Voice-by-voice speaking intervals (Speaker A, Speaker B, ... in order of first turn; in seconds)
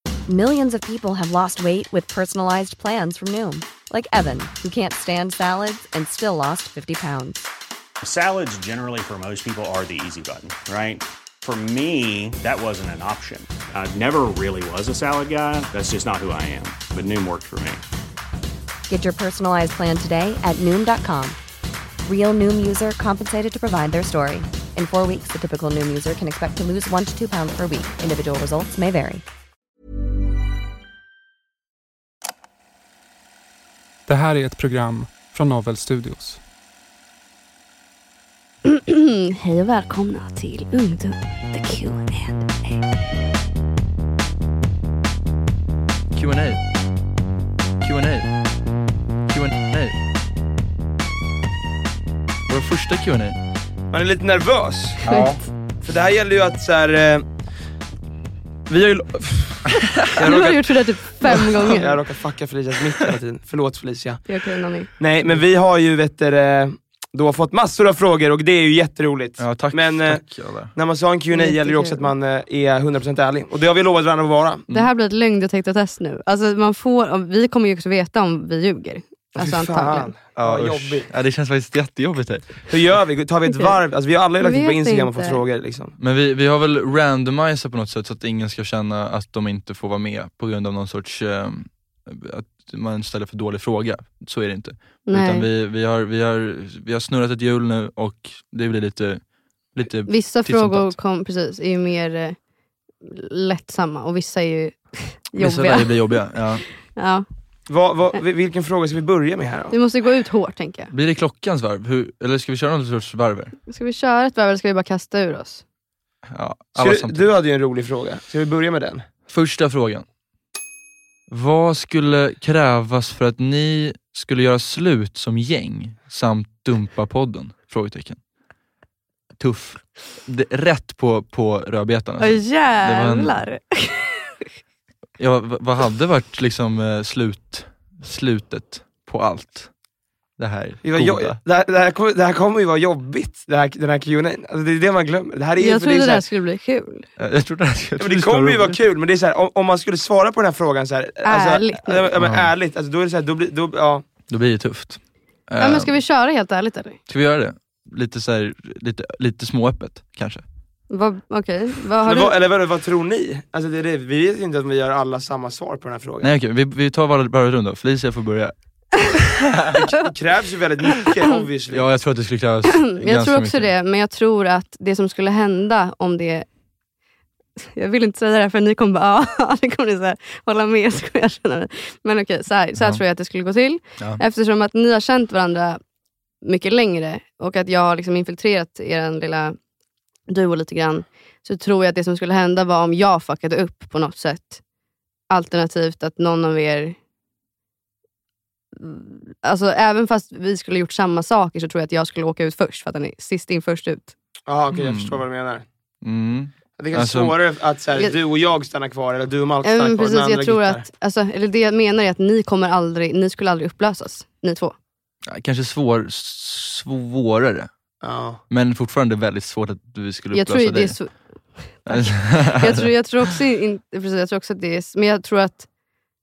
Speaker A: 0.3-7.5, 18.9-21.4, 22.0-29.2
Speaker B: 8.0-17.8
Speaker C: 34.0-36.4
Speaker D: 38.7-42.8, 60.1-61.9, 64.2-64.9, 71.3-72.1, 74.7-80.1, 83.5-83.8, 84.4-85.4, 95.0-95.5, 100.1-102.5, 103.0-107.2, 109.7-110.9, 113.7-115.7, 132.2-134.2, 145.6-147.1, 151.2-152.1, 155.6-157.0, 160.9-162.3, 172.7-176.5, 177.7-185.8, 186.4-189.6, 190.3-194.6, 195.3-197.0, 198.8-204.1, 209.6-214.8, 220.3-225.7
Speaker E: 46.1-46.7, 47.8-48.4, 49.3-50.0, 52.5-53.4, 55.0-55.5, 59.8-60.1, 69.4-70.8, 80.4-82.7, 86.0-100.9, 105.3-106.8, 110.9-113.6, 116.3-117.3, 119.3-120.1, 121.3-128.2, 129.4-133.4, 135.2-139.8, 140.4-141.4, 147.2-148.8, 152.2-152.5, 154.3-156.0, 157.1-160.5, 166.2-169.8, 171.7-173.7, 182.8-183.0, 204.7-205.2, 206.0-207.4, 215.3-217.7, 218.5-222.9
Speaker F: 53.9-55.1, 55.8-57.3, 58.7-64.3, 65.0-74.7, 79.3-81.1, 82.7-86.0, 107.7-109.8, 116.8-119.1, 140.8-146.2, 148.0-154.1, 162.0-166.3, 169.8-171.9, 204.5-205.7, 206.7-210.8, 218.0-218.4